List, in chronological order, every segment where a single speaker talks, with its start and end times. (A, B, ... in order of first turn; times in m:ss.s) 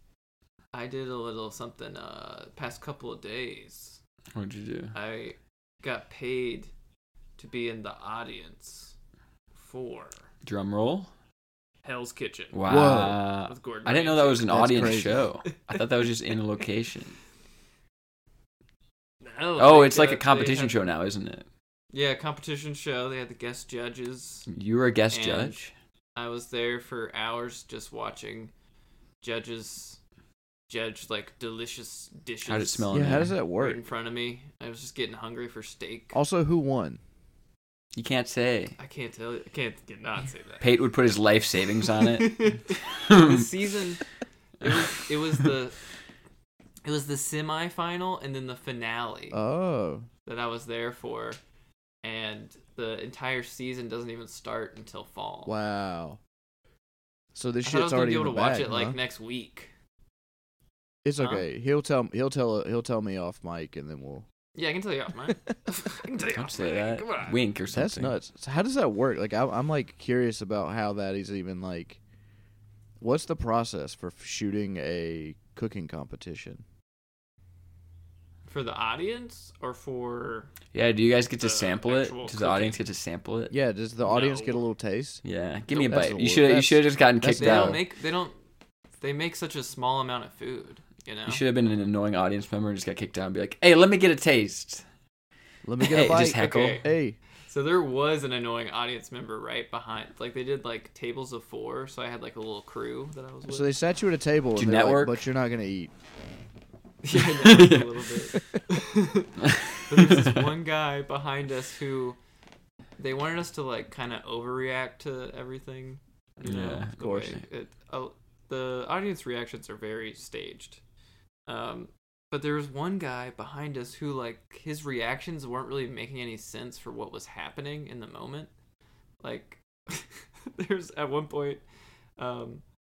0:00.7-0:04.0 A
0:04.3-0:05.0 B
0:04.9-0:06.7 A
0:07.4-0:08.9 A
0:09.5-0:10.2 A
0:10.4-0:11.1 B
0:11.8-0:12.6 A
0:12.5-0:17.2 B
0:12.7-0:13.2 C
0:13.4-0:14.8 A
0:14.5-0:15.3 C
0:15.4-0:15.8 A
0:19.2-0:20.8 A
0:19.6-0:21.4 B
0:21.9-0:24.5 A
0:24.5-0:25.7 B
0:25.1-0:25.6 A
0:26.1-0:28.5 A
0:29.2-0:30.0 A
0:30.7-0:32.9 A
0:32.5-0:33.3 B
0:32.9-0:33.8 C
0:33.5-0:36.2 A
0:36.1-0:37.0 C
0:37.9-0:38.8 B
0:38.8-0:40.7 A
0:40.6-0:43.5 B
0:41.9-0:44.0 A
0:44.6-0:45.8 A
0:46.8-0:49.4 A
0:49.3-0:50.1 C
0:50.2-0:51.4 A
0:52.0-0:55.5 A
0:55.4-0:56.2 C
0:57.3-0:59.0 C
0:57.6-0:59.7 A
1:01.0-1:04.2 C
1:01.2-1:01.5 A
1:04.5-1:07.4 A
1:06.3-1:08.2 B
1:07.7-1:12.0 C
1:13.0-1:16.6 C
1:18.5-1:20.5 A
1:20.7-1:23.6 B
1:21.4-1:22.8 A
1:23.5-1:27.8 C
1:24.0-1:24.6 A
1:25.2-1:27.8 B
1:27.4-1:28.4 A
1:29.0-1:31.4 A
1:31.2-1:34.8 B
1:35.6-1:37.2 C
1:35.8-1:36.8 A
1:35.8-1:36.8 B
1:37.5-1:43.7 A
1:43.5-1:45.9 C
1:44.6-1:45.2 B
1:47.0-1:52.2 A
1:47.1-1:48.0 B
1:49.4-1:50.4 B
1:53.0-2:00.8 A
1:56.4-1:57.2 B
1:57.0-1:57.4 C
2:01.5-2:08.5 A
2:09.2-2:11.6 A
2:12.2-2:12.6 A